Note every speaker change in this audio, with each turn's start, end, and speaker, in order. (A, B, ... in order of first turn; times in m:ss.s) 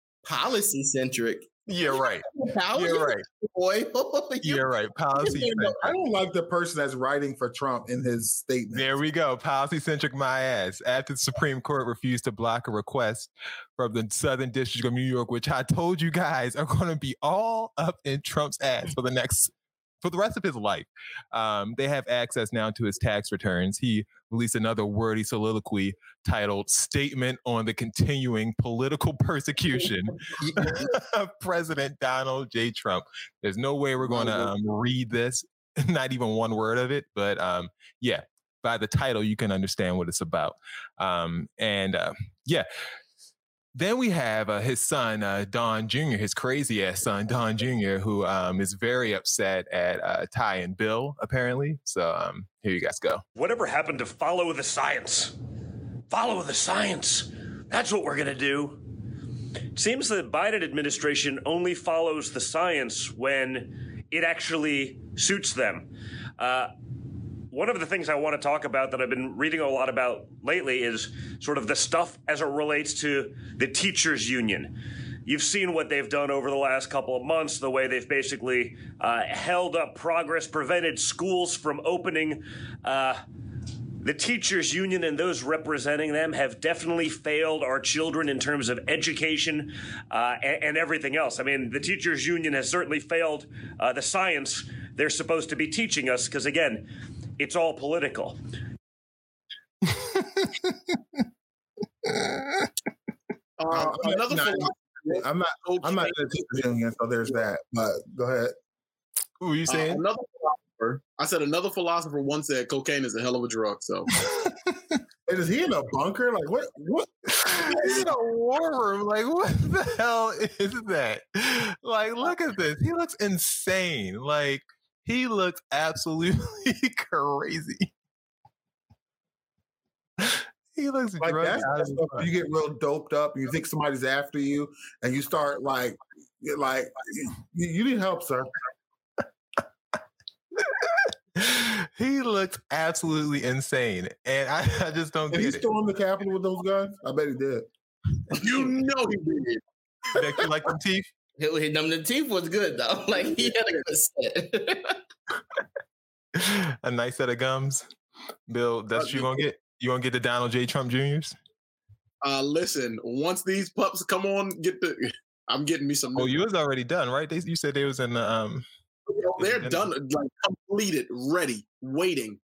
0:00.2-0:01.5 A
0:01.7-0:03.2 B
0:02.3-0:06.0 A
0:04.4-0:05.9 B
0:05.9-0:08.9 C
0:08.7-0:19.5 B
0:20.0-0:42.7 B
0:30.4-0:30.9 A
0:34.1-0:34.5 A
0:43.7-0:53.2 B
0:53.4-0:55.3 D
0:56.1-0:58.8 D
0:59.8-1:06.7 D
1:07.5-1:14.7 D
1:15.2-1:23.2 D
1:24.0-1:36.9 D
1:37.4-1:38.4 D
1:39.9-1:40.4 B
1:43.6-1:46.1 E
1:43.7-1:48.5 C
1:49.4-1:50.0 B
1:49.7-1:54.1 E
1:54.2-1:54.5 B
1:55.3-1:58.1 C
1:57.4-2:07.9 B
2:10.2-2:12.3 B
2:11.2-2:18.5 C
2:21.4-2:25.6 B
2:25.3-2:27.7 C
2:28.3-2:29.6 E
2:30.1-2:31.1 B
2:31.4-2:35.0 A
2:36.3-2:37.9 B
2:38.5-2:41.3 B
2:38.9-2:39.4 E
2:42.2-2:46.4 E
2:46.1-2:48.7 B
2:49.1-2:52.4 E
2:49.4-2:49.9 B